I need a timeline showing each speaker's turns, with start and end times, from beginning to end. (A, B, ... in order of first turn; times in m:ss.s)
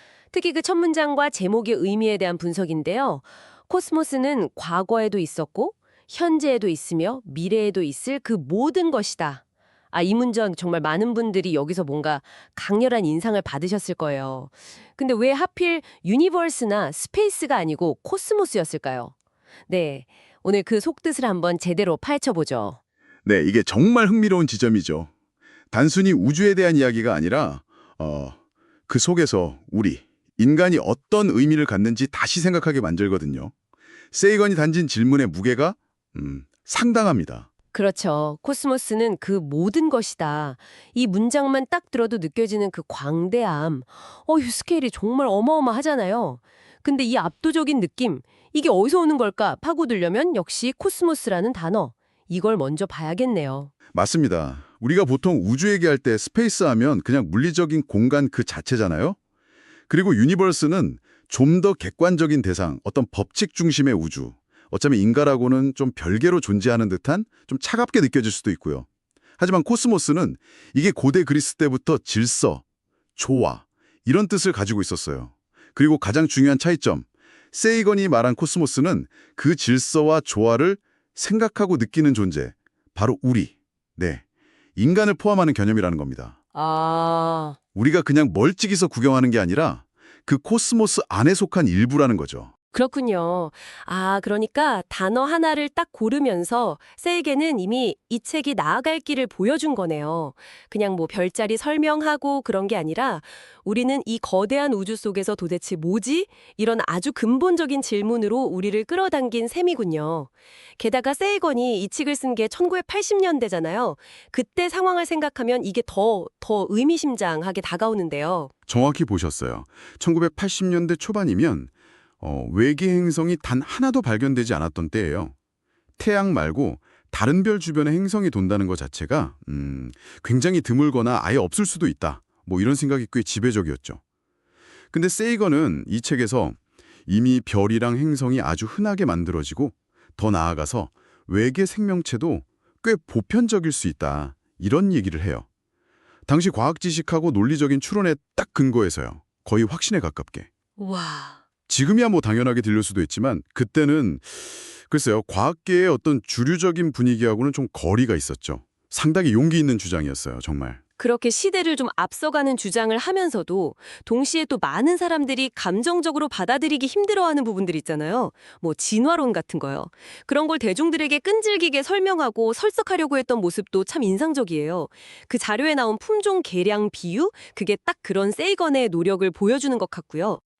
0:00.3-0:19.1 A
0:19.7-0:22.8 A
0:23.2-0:25.1 B
0:25.7-0:33.5 B
0:34.1-0:37.5 B
0:37.7-0:53.7 A
0:53.9-0:59.2 B
0:59.9-1:08.9 B
1:09.4-1:12.6 B
1:13.2-1:24.2 B
1:24.8-1:26.4 B
1:26.5-1:27.6 A
1:27.7-1:32.5 B
1:32.7-1:58.5 A
1:58.7-2:05.3 B
2:06.0-2:14.0 B
2:14.9-2:25.4 B
2:26.3-2:30.5 B
2:30.8-2:31.4 A
2:31.7-2:40.8 B
2:41.0-3:00.4 A